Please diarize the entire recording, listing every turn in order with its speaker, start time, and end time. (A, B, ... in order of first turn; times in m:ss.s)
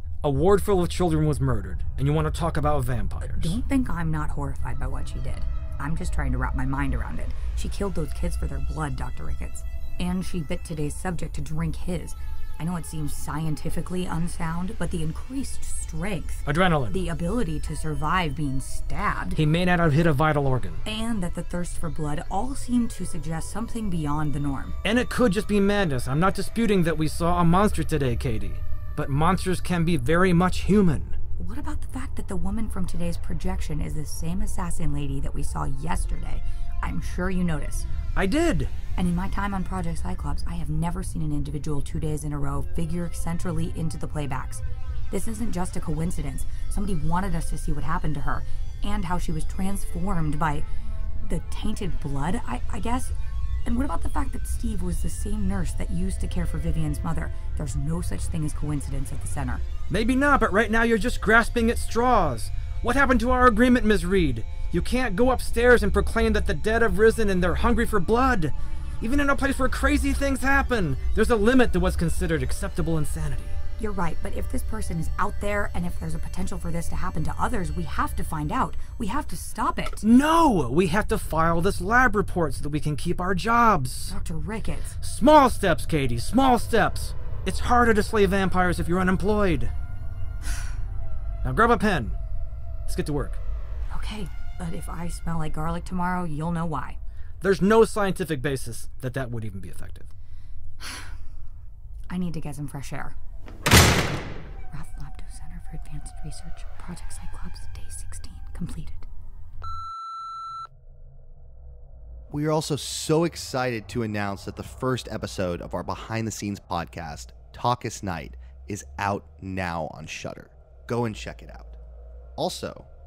0:00.2-0:03.6 A
0:03.2-0:19.4 B
0:16.4-0:17.0 A
0:19.4-0:20.8 A
0:20.8-0:24.8 B
0:24.8-0:31.2 A
0:31.4-0:37.9 B
0:38.1-0:38.7 A
0:38.9-0:50.6 B
0:51.2-0:59.6 B
0:59.9-1:13.6 A
1:13.8-1:20.0 B
1:20.0-1:24.1 A
1:24.1-1:25.0 B
1:25.0-1:29.7 A
1:31.4-1:32.2 A
1:32.9-1:33.4 A
1:33.9-1:37.0 B
1:37.4-1:40.1 A
1:42.1-1:43.2 B
1:44.7-1:49.0 B
1:52.3-2:01.8 C
2:02.4-2:02.9 C